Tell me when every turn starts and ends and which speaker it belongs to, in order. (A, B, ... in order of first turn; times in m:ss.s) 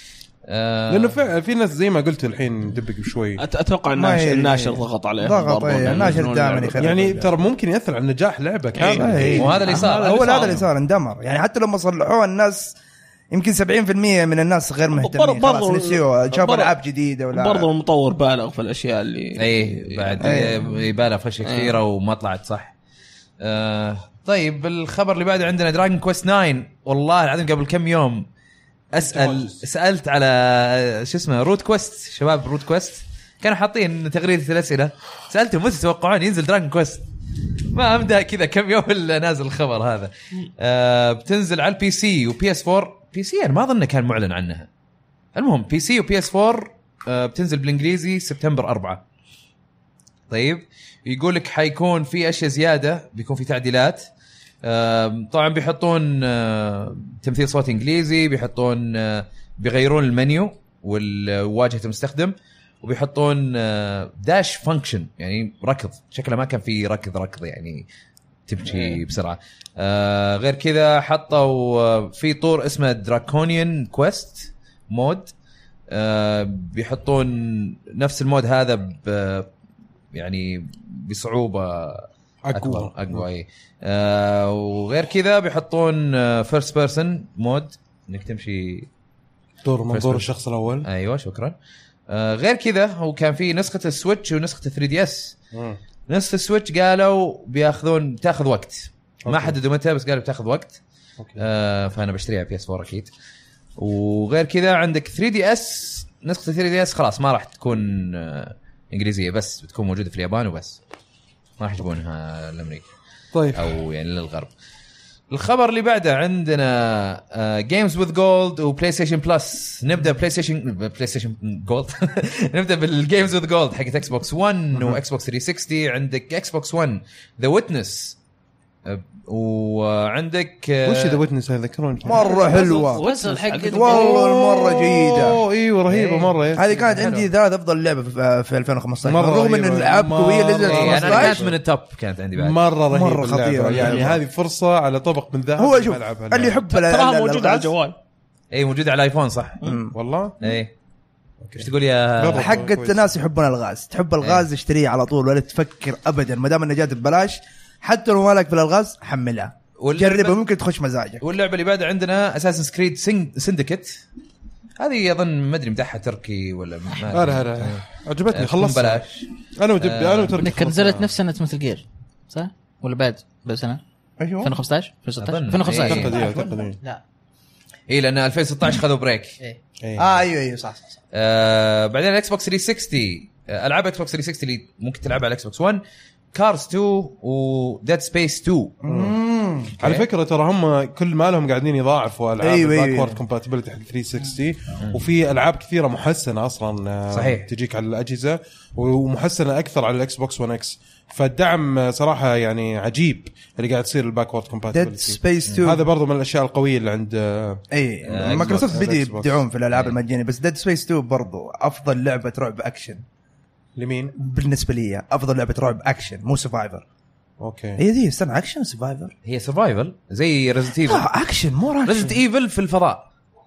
0:00.4-0:01.2 A
0:00.9-0:03.4 B
0:03.4-0:06.9 C
0:03.9-0:07.3 D
0:06.8-0:10.5 B
0:08.8-0:10.5 C
0:08.8-0:12.7 D
0:09.2-0:10.6 A
0:13.3-0:17.7 D
0:15.0-0:16.7 C
0:17.3-0:20.6 C
0:19.4-0:22.7 A
0:20.2-0:20.6 D
0:21.4-0:21.8 C
0:23.4-0:28.3 A
0:28.9-0:37.0 A
0:29.0-0:29.6 B
0:37.7-0:44.7 A
0:45.3-0:49.0 A
0:50.3-0:54.1 A
0:54.6-1:07.8 A
1:08.5-1:15.3 A
1:15.9-1:19.5 A
1:20.1-1:28.9 A
1:22.4-1:23.2 B
1:29.6-1:30.9 B
1:29.9-1:30.3 A
1:30.8-1:31.6 A
1:32.1-1:35.4 A
1:35.5-1:35.8 B
1:36.1-1:40.8 A
1:39.2-1:39.5 B
1:41.4-1:43.1 A
1:43.8-1:50.8 A
1:51.6-1:52.9 A
1:53.3-1:53.7 B
1:53.5-1:54.5 A
1:55.3-2:08.2 A
2:08.8-2:11.2 A
2:10.8-2:12.3 B
2:12.0-2:13.0 D
2:12.1-2:14.1 C
2:12.5-2:14.2 E
2:13.7-2:15.4 D
2:13.8-2:16.6 B
2:15.9-2:17.3 A
2:16.5-2:21.4 D
2:19.0-2:21.5 B
2:20.6-2:22.6 A
2:22.3-2:26.6 B
2:22.9-2:24.2 D
2:25.6-2:27.7 D
2:26.7-2:28.0 C
2:28.5-2:29.6 A
2:29.6-2:29.9 D
2:29.9-2:30.4 B
2:30.4-2:30.7 A
2:31.4-2:33.1 B
2:31.6-2:32.6 A
2:32.3-2:41.2 D
2:34.2-2:34.5 A
2:39.8-2:40.4 A
2:41.2-2:44.0 A
2:44.8-2:49.3 A
2:47.1-2:51.1 B
2:49.8-2:50.4 A
2:50.4-2:53.8 E
2:54.2-2:54.5 D
2:54.4-2:57.0 E
2:55.2-2:56.2 A
2:55.7-2:56.8 B
2:56.1-2:56.5 D
2:57.9-2:59.4 A
2:59.8-3:00.2 B
3:00.0-3:00.9 D
3:01.1-3:05.8 A
3:06.3-3:08.8 A
3:08.8-3:09.7 D
3:08.9-3:09.2 B
3:09.8-3:29.4 B
3:09.8-3:10.1 A
3:12.4-3:13.2 D
3:17.1-3:17.5 A
3:24.7-3:25.8 D
3:27.7-3:33.0 D
3:28.1-3:28.9 A
3:29.7-3:30.0 A
3:33.8-3:34.1 B
3:34.2-3:36.8 D
3:37.4-3:37.8 B
3:37.8-3:39.1 D
3:39.2-3:41.0 A
3:40.8-3:42.2 D
3:41.8-3:43.0 A